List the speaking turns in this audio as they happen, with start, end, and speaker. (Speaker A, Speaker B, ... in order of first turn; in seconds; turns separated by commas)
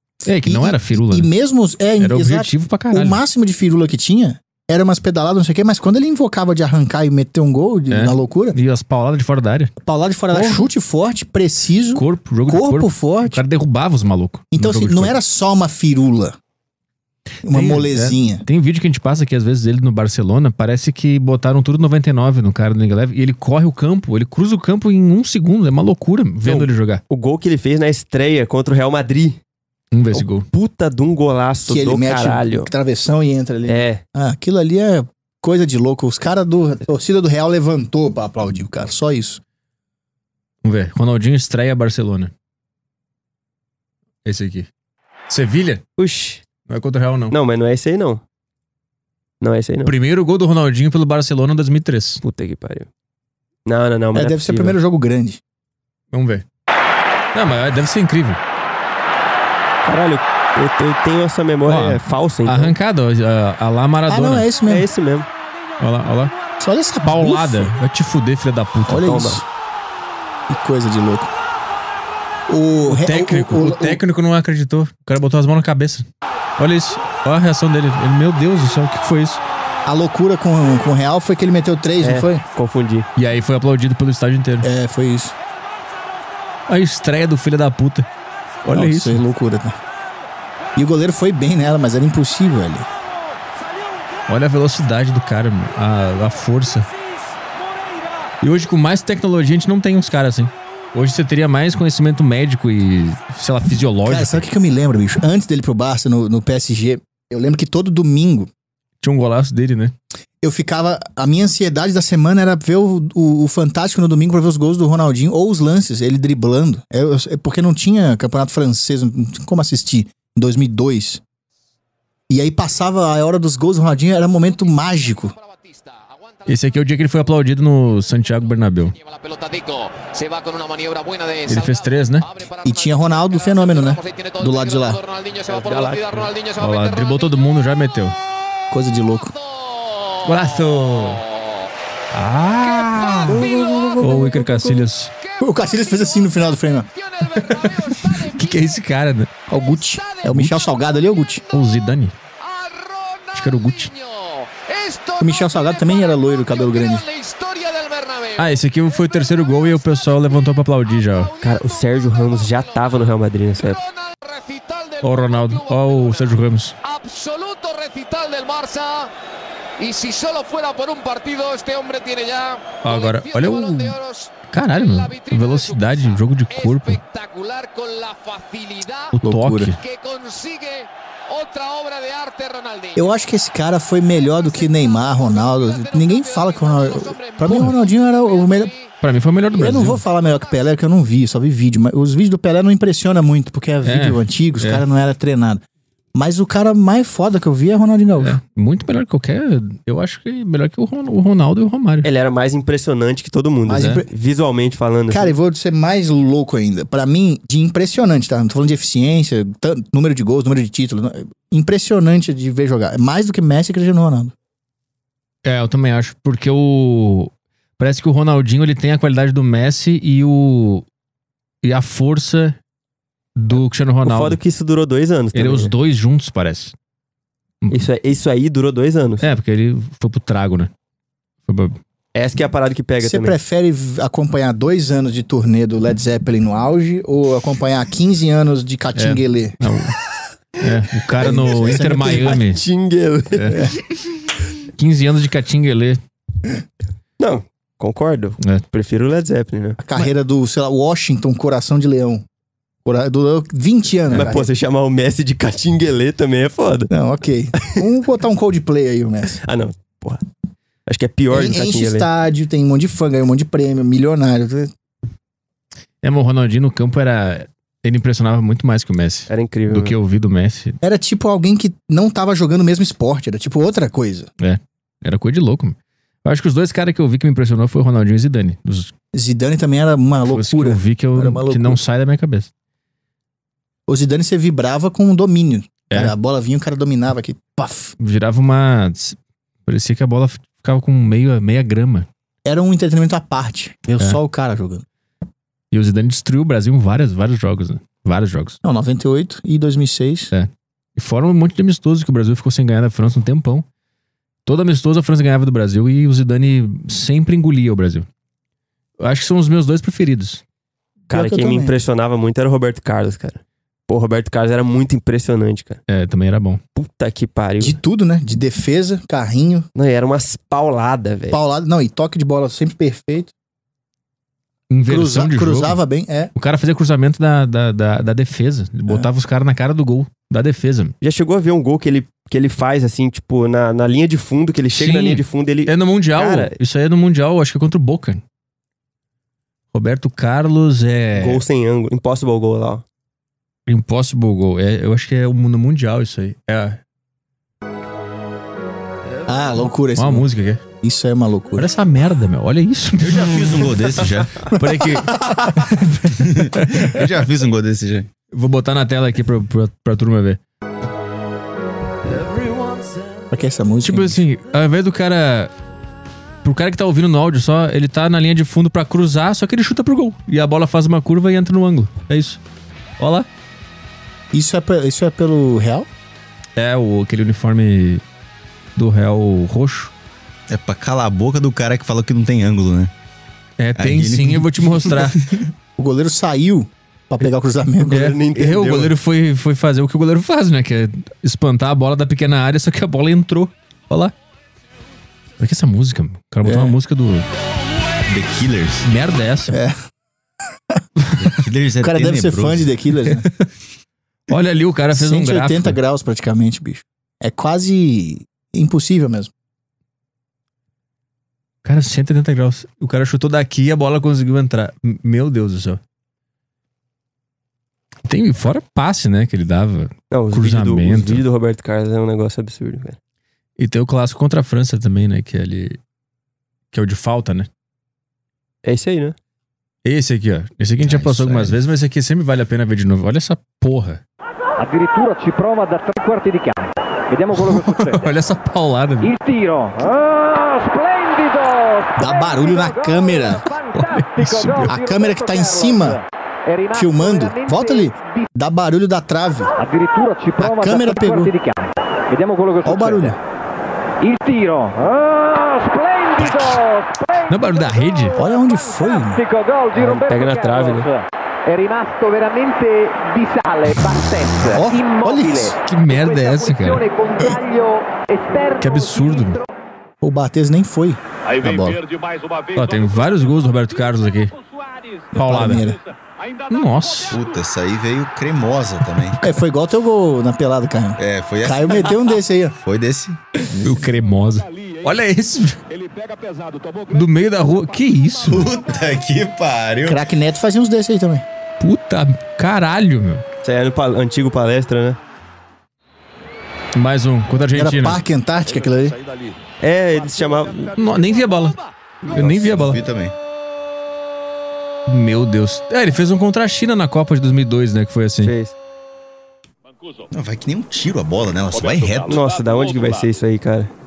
Speaker A: 0.2-1.3, Speaker B: 0.4-8.6, Speaker A: 2.0-3.2, Speaker A: 7.9-9.7, Speaker B: 9.8-13.4, Speaker A: 10.3-10.7, Speaker A: 11.9-15.1, Speaker B: 14.5-16.4, Speaker B: 17.4-18.4, Speaker A: 17.4-27.0, Speaker C: 26.4-29.4, Speaker A: 29.9-30.4, Speaker C: 30.1-32.7, Speaker B: 31.7-39.4, Speaker C: 33.7-34.0, Speaker A: 40.6-42.3, Speaker A: 44.2-44.7, Speaker A: 45.3-45.8, Speaker C: 46.0-46.4, Speaker A: 46.7-47.4, Speaker C: 47.3-48.2, Speaker C: 49.4-49.9, Speaker A: 49.8-52.2, Speaker C: 52.2-52.9, Speaker C: 53.6-54.8, Speaker B: 54.1-55.4, Speaker A: 56.1-56.4, Speaker A: 57.3-58.4, Speaker C: 59.8-62.7, Speaker A: 61.7-64.5, Speaker B: 64.1-64.9, Speaker C: 64.7-65.3, Speaker A: 65.8-66.3, Speaker B: 66.6-67.8, Speaker A: 67.0-69.1, Speaker B: 68.9-69.5, Speaker C: 69.0-69.4, Speaker B: 70.5-71.3, Speaker B: 72.5-74.0, Speaker A: 72.9-79.4, Speaker B: 79.8-82.4, Speaker C: 82.0-83.1, Speaker A: 83.2-84.7, Speaker B: 84.6-85.3, Speaker A: 86.7-88.1, Speaker A: 88.6-89.2, Speaker B: 88.7-89.8, Speaker B: 90.8-92.9, Speaker A: 94.3-96.9, Speaker A: 98.4-104.5, Speaker B: 104.0-108.5, Speaker A: 109.0-109.9, Speaker B: 110.4-121.2, Speaker B: 122.3-125.3, Speaker D: 124.4-126.7, Speaker A: 126.5-128.9, Speaker D: 128.1-137.3, Speaker A: 131.5-132.3, Speaker B: 132.6-135.0, Speaker C: 135.5-136.3, Speaker A: 136.6-138.1, Speaker B: 138.7-139.3, Speaker D: 139.3-141.7, Speaker A: 140.2-141.2, Speaker A: 142.1-143.4, Speaker D: 142.6-144.1, Speaker B: 143.3-144.5, Speaker C: 143.5-144.1, Speaker A: 144.0-145.1, Speaker D: 145.2-148.9, Speaker B: 145.4-146.9, Speaker A: 147.3-149.3, Speaker B: 149.5-151.4, Speaker D: 149.7-151.6, Speaker A: 150.3-150.6, Speaker A: 151.5-152.1, Speaker D: 152.4-158.6, Speaker A: 153.3-153.9, Speaker B: 155.2-157.0, Speaker A: 158.4-161.3, Speaker D: 159.3-159.8, Speaker D: 161.1-169.1, Speaker C: 161.4-163.8, Speaker A: 165.0-166.7, Speaker D: 169.8-179.1, Speaker A: 172.8-174.0, Speaker A: 174.5-177.0, Speaker A: 179.1-179.8, Speaker B: 179.2-179.7, Speaker D: 179.7-183.0, Speaker B: 182.9-188.7, Speaker D: 184.3-188.9, Speaker A: 189.0-190.0, Speaker B: 189.6-195.6, Speaker D: 190.3-190.6, Speaker A: 193.8-194.8, Speaker B: 196.1-198.4, Speaker A: 198.2-202.1, Speaker C: 202.0-205.3, Speaker B: 203.7-204.1, Speaker B: 205.1-214.3, Speaker A: 215.4-220.8, Speaker A: 221.6-222.6, Speaker A: 223.3-224.4, Speaker C: 224.0-225.7, Speaker A: 225.3-226.7, Speaker C: 227.7-229.2, Speaker A: 229.2-230.7, Speaker A: 231.5-231.8, Speaker C: 232.1-233.4, Speaker B: 233.0-239.6, Speaker A: 238.9-240.0, Speaker A: 240.6-242.6, Speaker B: 241.2-242.4, Speaker C: 241.3-243.5, Speaker A: 243.3-243.7, Speaker B: 243.5-243.7, Speaker A: 244.8-246.0, Speaker C: 247.2-249.8, Speaker B: 249.8-252.2, Speaker B: 252.8-254.5, Speaker C: 254.1-256.9, Speaker B: 256.9-259.4, Speaker C: 257.6-257.8, Speaker C: 259.4-260.2, Speaker C: 260.9-262.1, Speaker B: 261.3-264.7, Speaker A: 266.0-270.8, Speaker C: 269.3-269.9, Speaker B: 270.8-274.3, Speaker A: 274.4-278.9, Speaker B: 279.1-281.8, Speaker A: 280.3-282.5, Speaker B: 283.9-287.9, Speaker A: 288.0-292.1, Speaker B: 292.4-294.8, Speaker A: 295.7-298.6, Speaker B: 298.6-300.3, Speaker A: 300.3-303.6, Speaker A: 304.4-308.1, Speaker A: 309.0-310.4, Speaker B: 311.1-311.7, Speaker C: 311.1-315.8, Speaker A: 315.9-316.6, Speaker C: 316.8-317.8, Speaker B: 317.6-319.6, Speaker C: 319.7-321.4, Speaker B: 321.3-323.3, Speaker A: 324.7-325.8, Speaker B: 324.9-326.3, Speaker A: 326.3-330.9, Speaker C: 331.0-336.5, Speaker A: 334.7-338.2, Speaker A: 339.7-341.4, Speaker C: 341.2-342.8, Speaker A: 343.7-346.8, Speaker B: 349.2-350.2, Speaker A: 349.7-350.6, Speaker B: 350.8-351.7, Speaker A: 351.6-357.0, Speaker E: 353.0-354.5, Speaker B: 354.5-355.6, Speaker E: 356.1-358.1, Speaker A: 358.3-360.4, Speaker B: 363.3-364.2, Speaker A: 363.8-365.5, Speaker A: 366.4-372.4, Speaker A: 373.0-373.3, Speaker B: 374.3-375.9, Speaker A: 376.6-378.0, Speaker A: 378.8-379.9, Speaker E: 380.5-382.9, Speaker A: 383.6-385.4, Speaker E: 383.8-385.4, Speaker B: 385.8-388.1, Speaker C: 387.8-388.9, Speaker A: 387.9-394.1, Speaker A: 395.4-397.3, Speaker B: 396.4-396.8, Speaker E: 398.1-398.8, Speaker A: 398.8-399.6, Speaker B: 399.5-399.8, Speaker E: 401.2-402.7, Speaker B: 401.8-403.2, Speaker A: 403.2-403.5, Speaker A: 404.3-405.8, Speaker B: 404.9-409.3, Speaker A: 411.6-415.8, Speaker A: 418.1-421.2, Speaker C: 420.1-423.0, Speaker A: 423.6-425.8, Speaker A: 426.7-427.5, Speaker C: 428.6-429.1, Speaker A: 429.8-434.0, Speaker E: 430.8-431.6, Speaker F: 434.6-438.0, Speaker A: 437.3-439.1, Speaker F: 439.0-448.3, Speaker B: 442.0-443.4, Speaker A: 443.7-444.8, Speaker B: 444.6-446.0, Speaker B: 446.7-449.5, Speaker F: 449.6-453.2, Speaker B: 450.4-451.3, Speaker B: 452.6-453.2, Speaker F: 454.0-469.4, Speaker A: 456.2-456.6, Speaker A: 457.3-458.2, Speaker B: 458.1-459.2, Speaker C: 459.7-460.9, Speaker B: 464.5-465.6, Speaker A: 465.6-466.8, Speaker A: 468.6-469.4, Speaker B: 470.0-471.8, Speaker D: 471.2-473.5, Speaker A: 472.5-474.3, Speaker D: 474.3-475.1, Speaker A: 475.1-475.7, Speaker B: 475.1-475.8, Speaker D: 475.9-477.2, Speaker A: 476.5-477.2, Speaker E: 477.1-479.2, Speaker B: 479.2-482.5, Speaker E: 481.0-482.1, Speaker E: 482.6-483.2, Speaker A: 483.5-485.6, Speaker D: 484.3-485.0, Speaker D: 485.7-488.1, Speaker A: 486.9-488.5, Speaker E: 488.2-490.0, Speaker B: 489.8-491.2, Speaker A: 491.6-493.2, Speaker C: 493.4-495.0, Speaker A: 496.7-498.0, Speaker B: 497.5-498.9, Speaker F: 498.4-499.4, Speaker C: 499.6-500.8, Speaker A: 500.7-501.6, Speaker D: 500.9-501.4, Speaker E: 502.1-503.1, Speaker A: 502.1-502.8, Speaker A: 504.9-508.3, Speaker C: 508.2-508.5, Speaker D: 509.8-510.1, Speaker E: 510.1-512.2, Speaker D: 511.5-513.0, Speaker C: 512.1-513.7